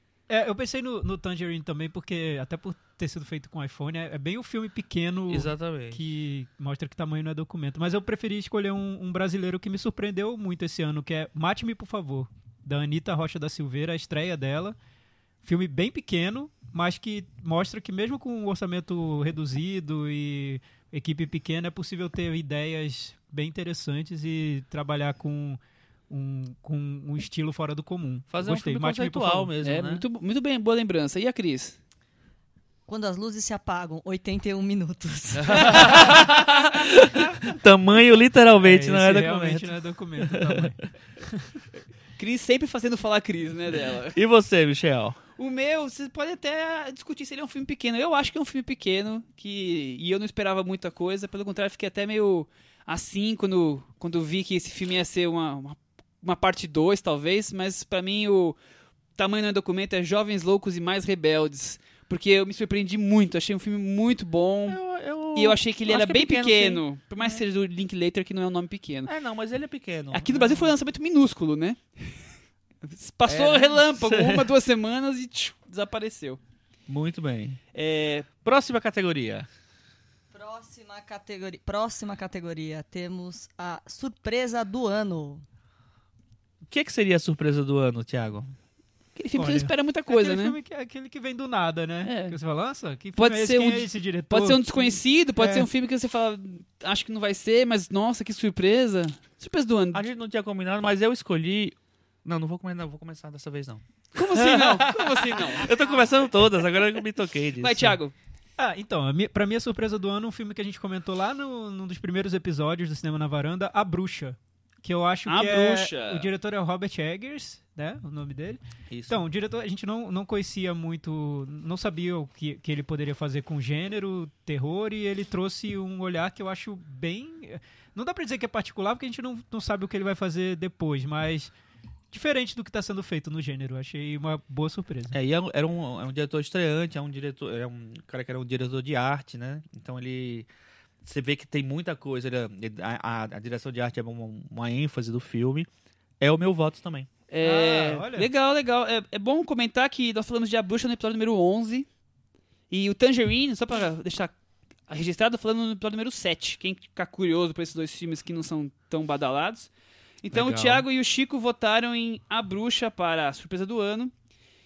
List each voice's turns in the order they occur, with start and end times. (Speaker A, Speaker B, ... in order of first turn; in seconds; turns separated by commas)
Speaker A: 0.3-14.8, Speaker B: 5.3-6.0, Speaker A: 15.4-25.6, Speaker A: 26.1-29.5, Speaker B: 28.3-30.0, Speaker C: 29.6-31.8, Speaker D: 32.9-36.0, Speaker B: 35.4-40.7, Speaker A: 38.6-41.6, Speaker C: 42.2-44.2, Speaker B: 44.1-45.2, Speaker C: 45.4-58.6, Speaker C: 59.2-64.8, Speaker B: 64.7-67.4, Speaker C: 65.3-69.1, Speaker B: 69.1-70.7, Speaker C: 70.1-72.2, Speaker C: 72.8-76.4, Speaker B: 73.2-74.5, Speaker B: 76.9-77.6, Speaker C: 77.7-78.3, Speaker B: 78.4-79.5, Speaker D: 80.3-85.4, Speaker B: 86.7-88.5, Speaker C: 89.2-90.5, Speaker A: 89.3-95.7, Speaker C: 92.0-92.3, Speaker C: 93.2-100.0, Speaker B: 99.9-108.0, Speaker C: 104.1-105.7, Speaker C: 107.6-108.1, Speaker A: 108.6-131.5, Speaker C: 115.2-116.3, Speaker B: 118.9-119.2, Speaker A: 132.1-135.2, Speaker B: 135.1-140.5, Speaker B: 141.0-145.7, Speaker B: 146.2-147.1, Speaker C: 147.3-151.9, Speaker A: 147.4-148.3, Speaker C: 152.7-154.3, Speaker C: 154.9-159.7, Speaker C: 160.2-164.1, Speaker B: 160.3-160.8